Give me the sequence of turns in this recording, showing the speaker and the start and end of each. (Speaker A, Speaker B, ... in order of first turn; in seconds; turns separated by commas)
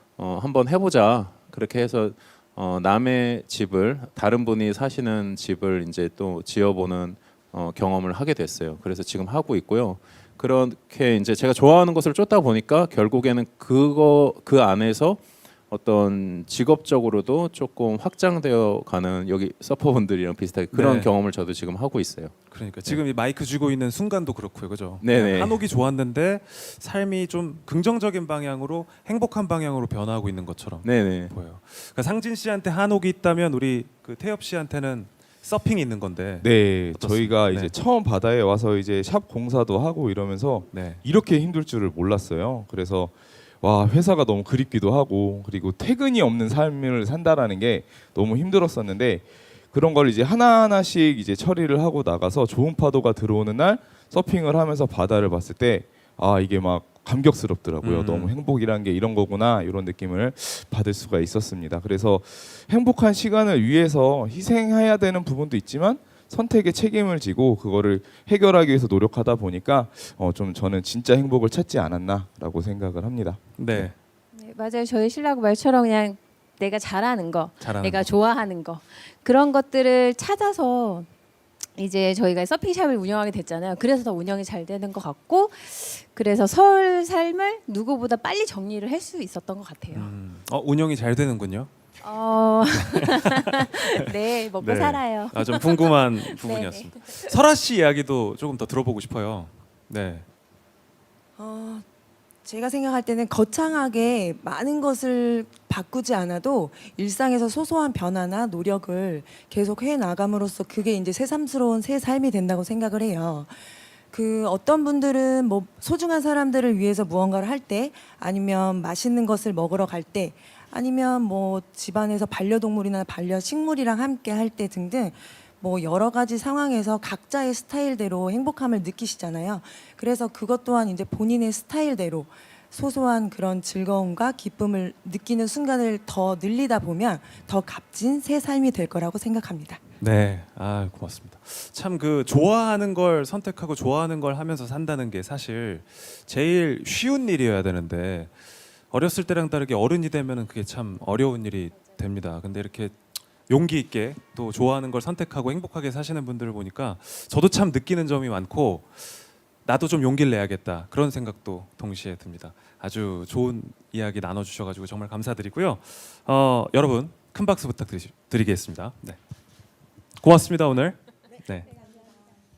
Speaker A: 0.2-22.3, Speaker B: 20.7-21.1, Speaker B: 22.5-37.7, Speaker A: 25.0-25.6, Speaker A: 30.8-31.3, Speaker C: 36.4-73.9, Speaker B: 40.7-41.0, Speaker B: 57.8-58.4, Speaker B: 73.6-74.0, Speaker D: 74.3-81.1, Speaker B: 77.6-78.1, Speaker D: 81.8-90.1, Speaker B: 89.9-91.7, Speaker D: 92.0-97.3, Speaker B: 92.8-93.6, Speaker B: 94.5-100.3, Speaker E: 101.4-101.8, Speaker E: 102.5-139.8, Speaker B: 140.0-148.4, Speaker B: 148.9-169.2, Speaker B: 170.2-171.7